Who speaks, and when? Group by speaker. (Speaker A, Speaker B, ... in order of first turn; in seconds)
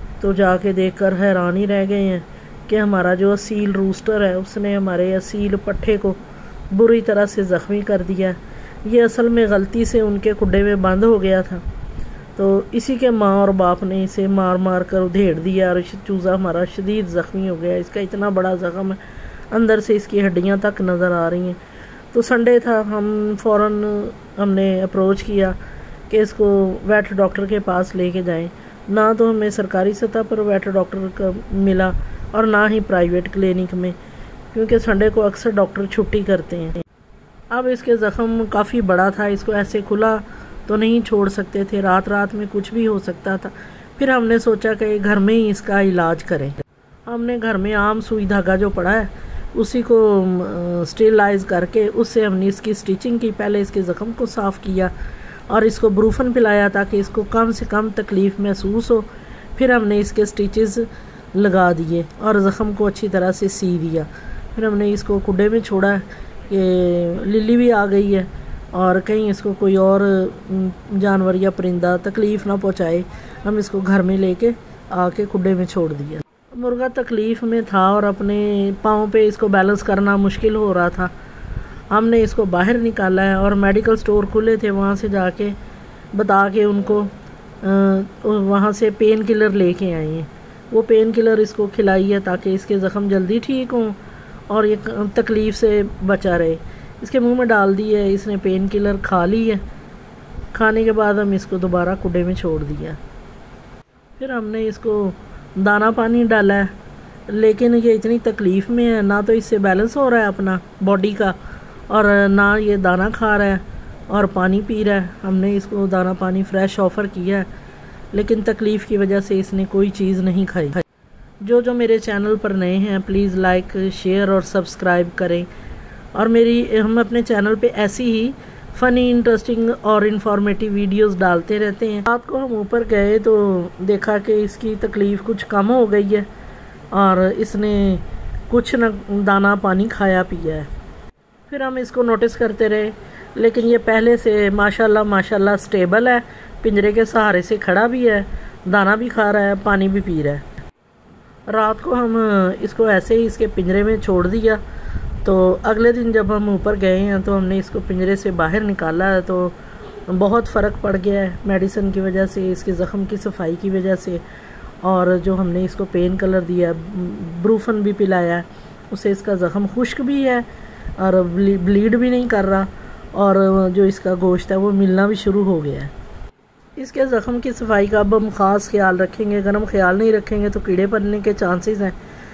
Speaker A: 0.2-6.2, 6.7-11.6, 12.4-19.0, 19.5-21.6, 22.1-25.6, 26.1-34.0, 34.5-36.8, 37.5-54.9, 55.5-81.1, 81.9-85.6, 86.1-94.0, 94.5-99.6, 100.5-103.0, 104.2-106.7, 107.3-111.4, 111.9-117.5, 118.1-120.8, 121.4-125.5, 126.1-136.3, 136.9-140.7, 141.5-150.4, 151.5-154.6, 155.2-164.2, 164.8-175.9, 176.8-182.0